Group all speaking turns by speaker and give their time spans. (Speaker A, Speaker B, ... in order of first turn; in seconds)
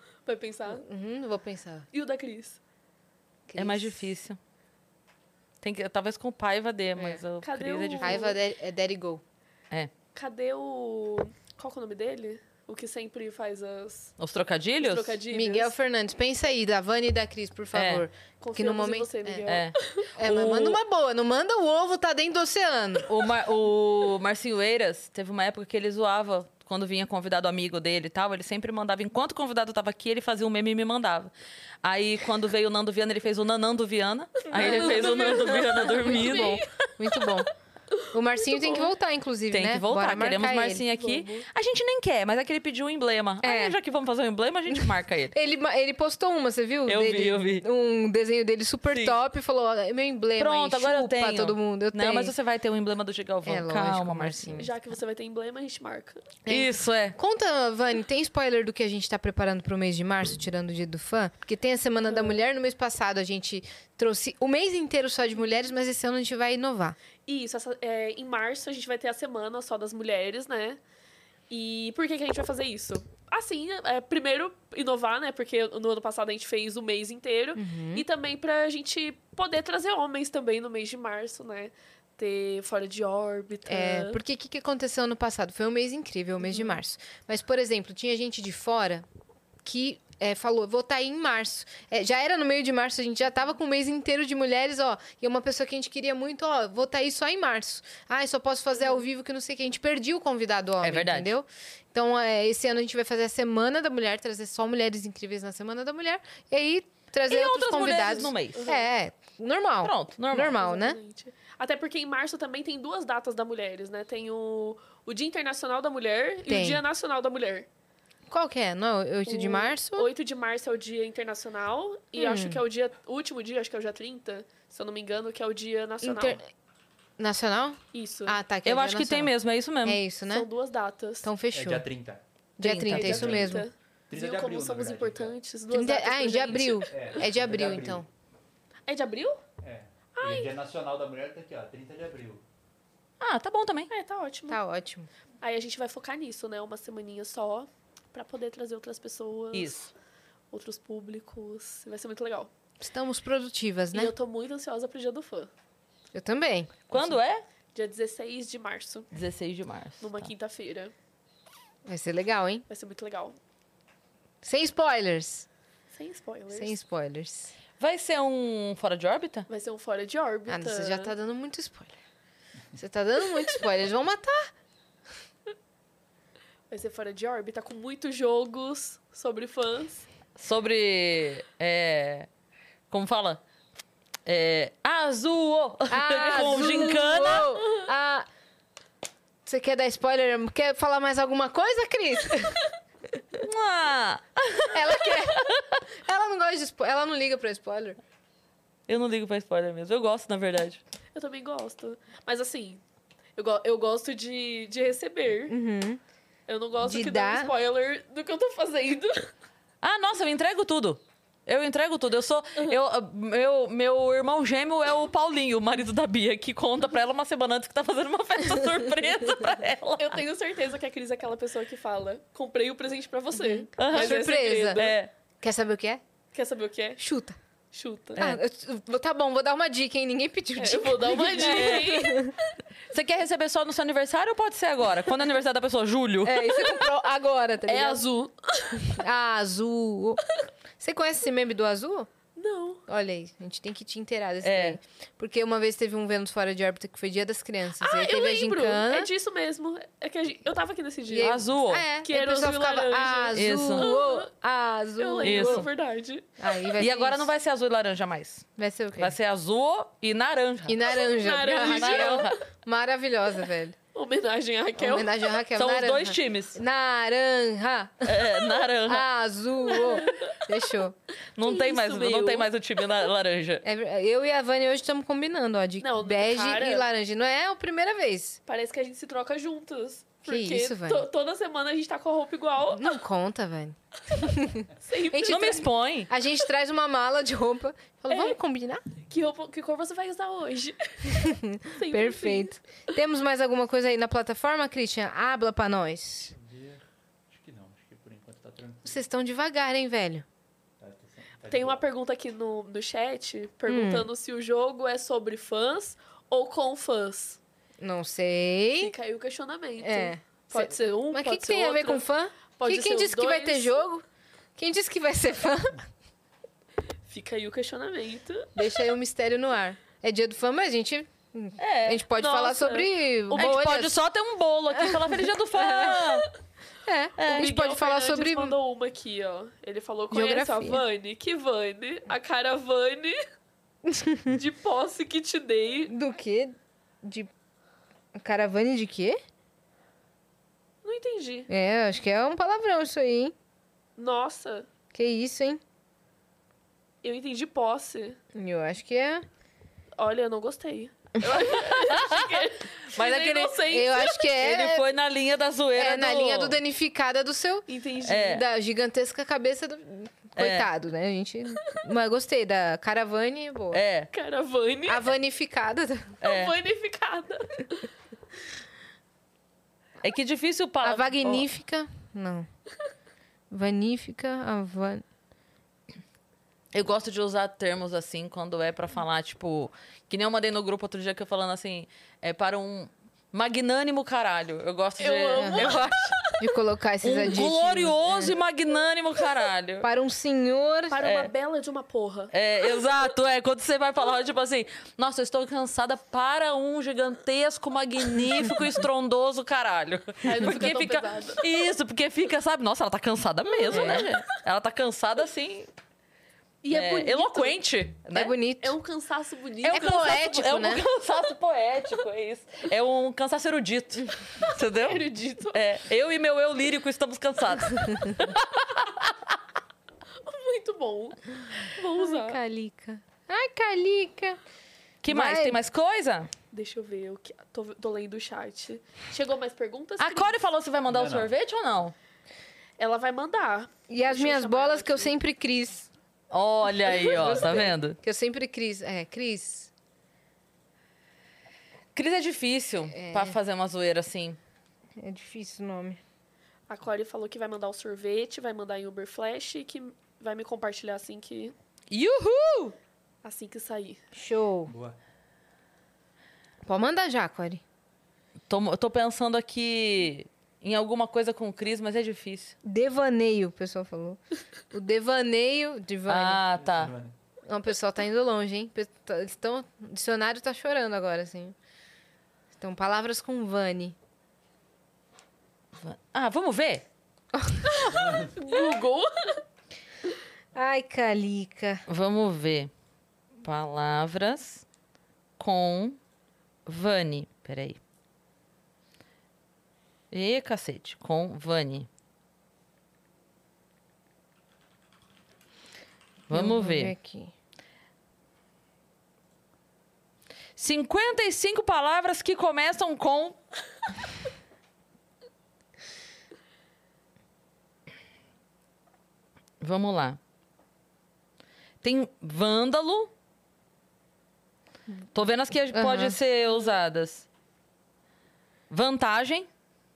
Speaker A: 0.2-0.8, 1.9-2.6, 7.4-8.4, 10.1-14.1, 14.8-15.7, 18.4-20.1, 34.5-36.7, 37.9-38.9, 40.9-41.5, 54.5-56.2, 62.1-62.4, 67.3-70.8, 71.5-84.2, 86.5-86.8, 108.5-108.9, 110.5-117.7, 119.3-126.4, 127.9-128.4, 130.3-131.3, 132.9-137.2, 138.9-139.4, 140.1-140.5, 143.9-144.6, 145.4-149.9, 150.5-152.5, 153.9-155.5, 157.7-159.1, 160.0-160.9, 162.7-163.4, 165.9-166.8, 169.5-171.1, 176.7-180.1, 186.4-186.9, 201.1-202.8, 203.3-205.5, 206.5-209.3, 220.0-225.0, 226.3-227.0, 227.7-228.3, 230.6-232.3, 237.7-239.0, 242.3-242.8, 247.8-251.4, 252.0-254.3, 255.0-256.3, 260.9-262.3, 263.9-265.4, 269.7-270.4, 271.4-272.5, 275.8-276.9, 278.5-283.0, 284.8-285.7, 288.1-288.4, 289.1-292.6, 301.5-307.4, 308.8-312.0, 312.6-313.8, 317.1-318.5, 322.1-323.7, 327.3-333.2, 334.3-335.9, 340.8-341.5, 344.0-344.7, 347.0-348.2, 350.0-354.3, 357.7-358.4, 364.1-365.0, 366.2-367.9, 385.0-386.5, 390.9-392.3, 400.2-401.4, 403.6-404.1, 406.6-407.6, 408.6-410.3, 414.8-415.6, 420.2-422.4, 426.5-430.4, 432.8-435.1, 437.1-437.3, 446.7-451.5, 453.2-454.0, 477.6-479.4
Speaker B: 0.7-1.9, 3.5-4.0, 7.0-7.2, 8.0-9.2, 15.3-19.5, 20.2-23.1, 34.6-37.5, 38.1-40.8, 43.4-43.8, 44.7-52.3, 53.4-54.7, 56.5-67.0, 77.5-78.0, 83.7-89.0, 89.6-111.0, 116.5-116.8, 118.3-120.1, 122.2-122.6, 126.0-126.5, 127.2-129.3, 129.8-130.5, 131.2-131.9, 132.6-133.7, 135.7-138.1, 144.5-145.1, 152.8-154.1, 156.1-157.2, 161.8-162.6, 164.4-165.4, 166.5-167.5, 170.5-172.0, 172.8-174.5, 185.9-188.3, 189.4-192.7, 194.7-198.0, 205.5-206.0, 206.8-207.5, 223.4-224.9, 225.4-226.0, 227.0-227.4, 228.2-232.3, 236.2-238.0, 238.8-240.2, 240.8-242.1, 242.9-249.1, 251.1-255.7, 256.4-257.3, 258.6-259.1, 260.7-263.8, 264.8-270.9, 273.6-278.4, 280.2-281.1, 282.7-288.8, 291.1-296.3, 298.8-300.2, 303.7-304.1, 307.8-308.9, 309.8-314.0, 314.6-315.8, 318.6-324.0, 324.7-326.2, 326.8-328.6, 330.1-330.8, 333.9-334.3, 335.9-337.3, 338.1-339.2, 341.5-343.3, 344.9-345.6, 348.3-349.2, 353.6-354.9, 355.8-363.8, 364.9-366.2, 370.8-372.5, 373.5-375.0, 385.4-388.3, 389.8-391.0, 403.7-404.1, 408.1-408.8, 409.7-410.8, 422.0-424.4, 425.1-425.6, 433.9-435.9, 437.1-439.7, 442.9-443.4, 445.0-446.0, 454.1-454.7, 456.6-457.6, 462.6-464.2, 464.7-466.4, 467.4-471.5, 472.6-473.9, 477.3-477.8, 480.5-481.8, 496.3-497.3, 515.7-516.2
Speaker C: 3.6-4.4, 5.6-8.2, 14.2-15.1, 17.7-18.1, 19.5-20.8, 23.1-31.3, 31.8-36.6, 39.5-45.3, 46.9-47.6, 48.9-49.2, 50.4-54.6, 56.5-57.1, 100.8-101.3, 107.3-108.6, 109.8-110.6, 128.6-130.0, 132.6-133.1, 143.2-143.9, 149.5-149.9, 156.9-157.4, 159.1-160.3, 167.8-169.5, 180.3-182.3, 182.9-183.4, 184.2-187.5, 193.4-195.8, 198.9-200.8, 209.8-220.2, 223.8-224.2, 224.7-225.1, 231.4-232.1, 232.9-236.5, 244.4-244.8, 251.2-251.8, 253.3-253.9, 255.2-255.7, 256.8-258.5, 259.0-260.8, 261.6-262.4, 265.6-266.6, 268.0-269.0, 271.4-273.6, 285.2-286.1, 321.6-322.0, 323.4-326.3, 327.2-327.5, 351.4-353.6, 354.4-356.6, 358.1-358.4, 360.4-360.7, 363.7-364.1, 366.2-366.5, 370.0-371.4, 376.7-385.8, 387.0-389.9, 391.0-391.3, 392.3-405.7, 406.7-408.3, 409.6-419.2, 425.0-426.3, 430.0-431.9, 436.3-438.0, 441.9-444.4, 451.9-452.7, 458.5-462.5, 466.1-466.9, 475.8-476.8, 481.9-482.7, 483.4-484.6, 485.4-486.0, 486.6-487.8, 490.1-491.9, 496.3-496.9, 500.6-503.4, 509.6-510.2, 511.8-513.1, 515.1-517.3, 518.7-519.5
Speaker D: 131.5-132.2, 133.0-133.5, 134.1-135.3, 136.9-138.1, 139.6-142.4, 296.3-299.0, 300.8-301.8, 430.9-431.3, 454.7-454.9, 466.6-467.1, 477.9-478.3